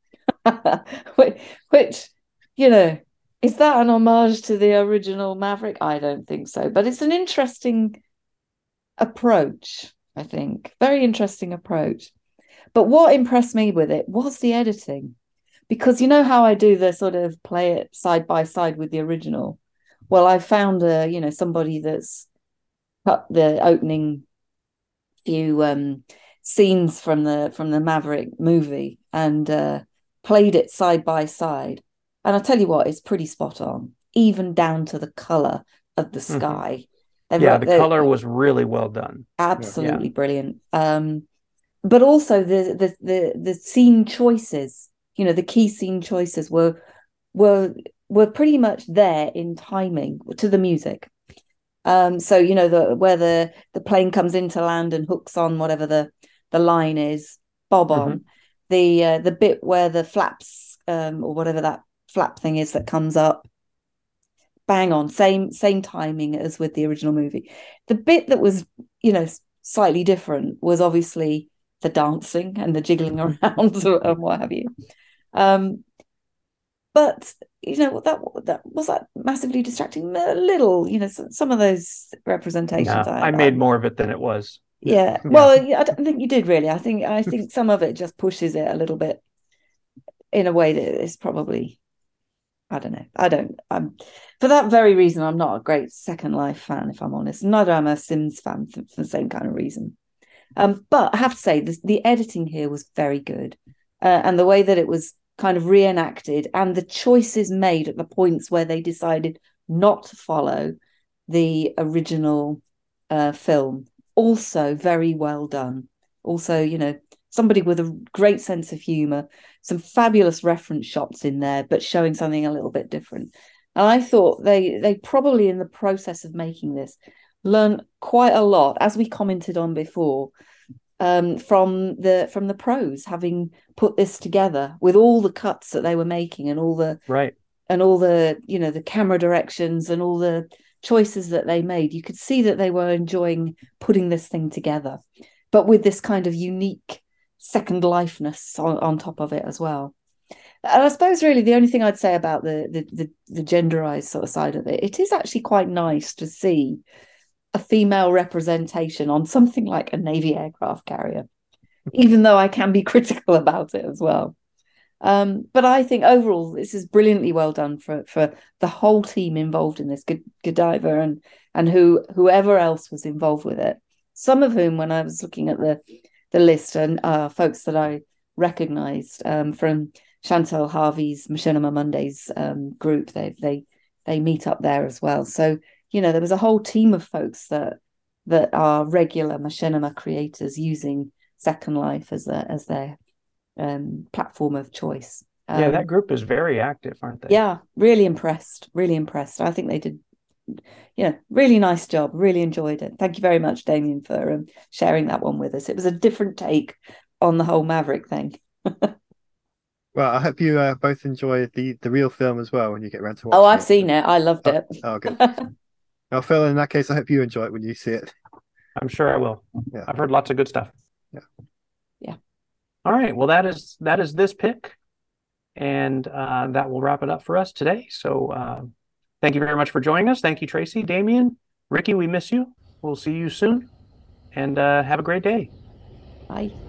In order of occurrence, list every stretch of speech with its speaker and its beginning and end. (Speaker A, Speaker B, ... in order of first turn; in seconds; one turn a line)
Speaker A: 0.4-8.0
Speaker A: 9.0-12.1
Speaker A: 12.7-15.2
Speaker A: 15.7-22.3
Speaker A: 23.0-24.2
Speaker A: 25.2-38.1
Speaker B: 36.3-36.6
Speaker B: 37.4-39.3
Speaker A: 39.4-41.2
Speaker B: 39.8-40.1
Speaker A: 41.8-46.8
Speaker A: 47.3-51.1
Speaker A: 51.8-63.5
Speaker B: 57.9-58.2
Speaker A: 64.7-74.7
Speaker A: 75.3-75.8
Speaker A: 76.9-83.6
Speaker B: 82.8-85.5
Speaker A: 84.8-89.2
Speaker A: 90.3-91.8
Speaker A: 92.7-99.9
Speaker A: 100.5-110.7
Speaker A: 111.3-130.3
Speaker A: 131.0-137.0
Speaker B: 137.1-137.3
Speaker A: 137.7-145.0
Speaker A: 145.5-149.9
Speaker A: 150.6-156.8
Speaker A: 157.5-161.2
Speaker A: 161.9-164.3
Speaker A: 165.0-175.8
Speaker A: 176.3-192.9
Speaker A: 193.6-195.8
Speaker B: 195.5-197.4
Speaker A: 197.3-200.0
Speaker A: 200.5-208.9
Speaker C: 209.9-213.9
Speaker A: 213.3-215.5
Speaker C: 214.4-215.2
Speaker C: 216.1-218.1
Speaker B: 218.8-220.7
Speaker B: 222.8-224.8
Speaker B: 225.6-233.7
Speaker B: 234.3-235.5
Speaker A: 236.3-236.5